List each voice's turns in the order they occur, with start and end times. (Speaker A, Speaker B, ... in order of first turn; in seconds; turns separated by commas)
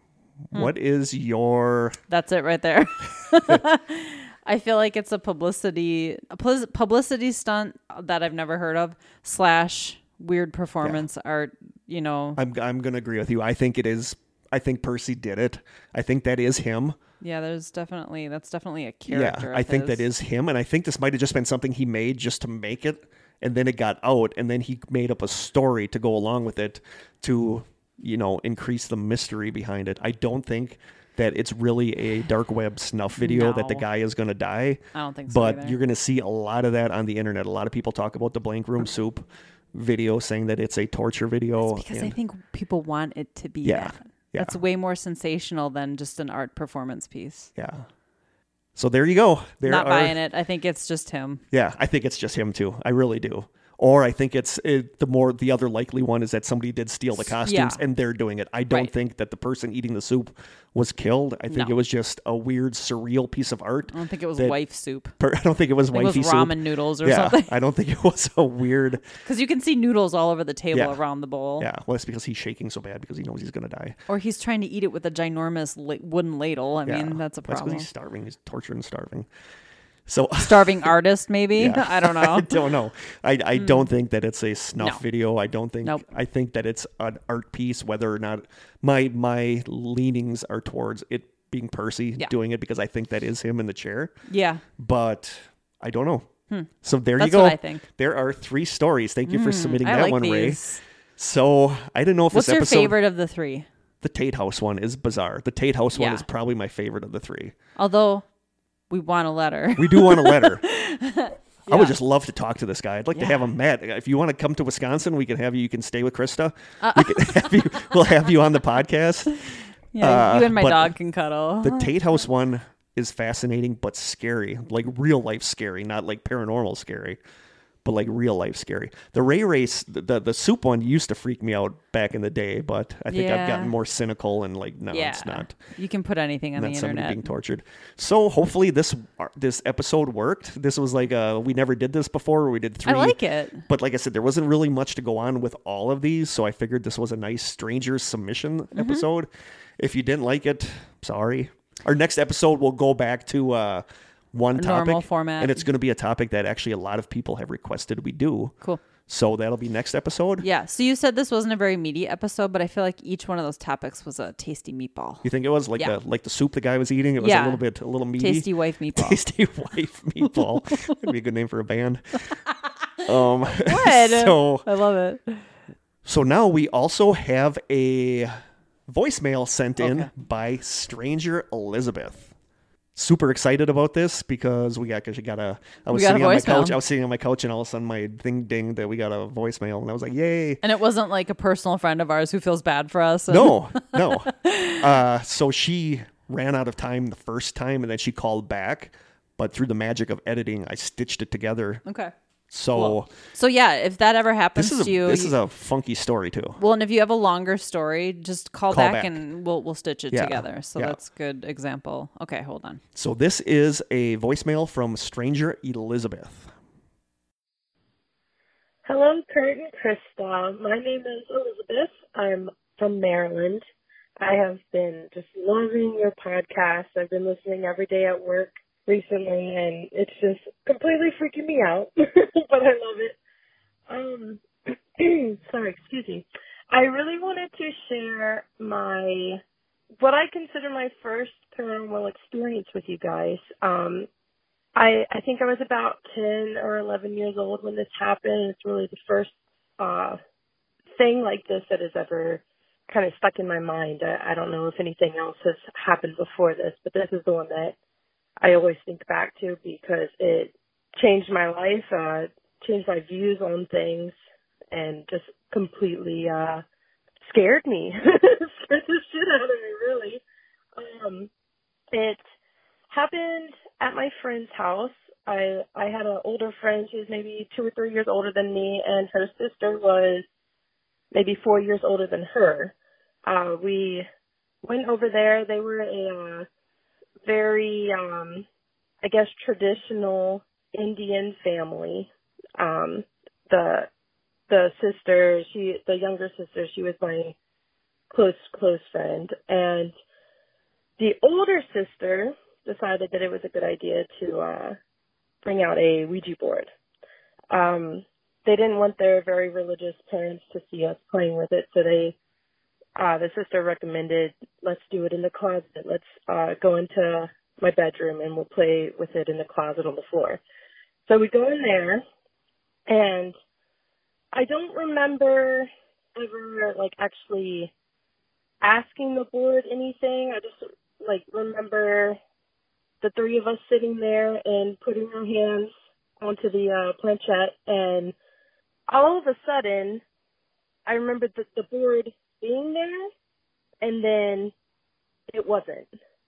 Speaker A: 0.5-2.0, Speaker B: 2.1-12.4, Speaker A: 12.4-17.0, Speaker B: 17.2-20.1, Speaker A: 19.1-42.1, Speaker B: 33.2-33.9, Speaker B: 34.9-35.8, Speaker B: 41.6-47.5, Speaker A: 43.6-44.6, Speaker A: 47.6-47.9, Speaker A: 48.8-50.2, Speaker B: 49.6-51.4, Speaker A: 51.5-64.6, Speaker B: 57.4-57.8, Speaker B: 61.5-61.8, Speaker B: 63.9-65.2, Speaker A: 65.2-69.1, Speaker B: 65.9-67.5, Speaker B: 69.2-71.7, Speaker A: 71.6-74.0, Speaker B: 74.1-77.9, Speaker A: 76.9-79.3, Speaker A: 80.1-80.9, Speaker B: 80.4-82.6, Speaker A: 81.5-94.2, Speaker B: 83.6-83.9, Speaker B: 94.3-94.6, Speaker A: 94.8-96.3, Speaker B: 96.5-97.8, Speaker A: 96.8-100.6, Speaker B: 99.3-100.8, Speaker A: 101.2-103.0, Speaker B: 102.3-103.7, Speaker A: 104.0-107.5, Speaker B: 105.9-106.3, Speaker B: 107.8-108.2, Speaker B: 108.9-112.0, Speaker A: 109.8-110.6, Speaker A: 111.7-119.4, Speaker B: 113.2-113.5, Speaker B: 116.8-117.9, Speaker B: 119.5-121.9, Speaker A: 120.0-120.9, Speaker A: 121.6-127.2, Speaker A: 127.8-135.6, Speaker B: 133.1-133.7, Speaker B: 134.9-137.3, Speaker A: 136.6-158.6, Speaker B: 142.9-143.7, Speaker B: 148.8-149.1, Speaker B: 154.5-155.7, Speaker A: 159.1-160.4, Speaker B: 160.4-165.3, Speaker A: 165.2-172.2, Speaker B: 167.2-167.6, Speaker B: 168.2-169.2, Speaker B: 170.3-171.0, Speaker A: 173.1-174.7, Speaker B: 173.5-175.5, Speaker A: 176.1-178.3, Speaker A: 178.9-182.3, Speaker B: 179.8-180.1, Speaker A: 182.9-190.6, Speaker B: 185.9-186.8, Speaker B: 190.6-194.8, Speaker A: 193.3-201.8, Speaker B: 201.8-202.1, Speaker A: 202.5-203.1, Speaker B: 202.7-205.4, Speaker A: 204.6-206.6, Speaker B: 206.6-212.8, Speaker A: 208.7-209.2, Speaker A: 210.1-211.0, Speaker A: 212.9-216.5, Speaker C: 218.9-223.6, Speaker C: 224.2-233.2, Speaker C: 233.9-239.4, Speaker C: 240.0-244.1, Speaker C: 244.8-250.2, Speaker C: 250.9-257.8, Speaker C: 258.4-264.1, Speaker C: 264.7-266.6, Speaker C: 267.3-270.2, Speaker C: 270.8-271.3, Speaker C: 271.9-272.2, Speaker C: 272.9-280.2, Speaker C: 281.1-282.7, Speaker C: 283.2-284.1, Speaker C: 284.6-286.5, Speaker C: 287.2-288.5, Speaker C: 289.0-293.9, Speaker C: 294.5-297.4, Speaker C: 298.1-299.9, Speaker C: 301.0-304.8, Speaker C: 305.4-306.7, Speaker C: 307.5-312.2, Speaker C: 313.0-320.4, Speaker C: 321.1-322.0, Speaker C: 322.9-323.3, Speaker C: 324.3-327.7, Speaker C: 328.6-332.2, Speaker C: 333.0-338.1, Speaker C: 338.9-340.0, Speaker C: 340.9-343.1, Speaker C: 343.8-344.5, Speaker C: 345.3-345.9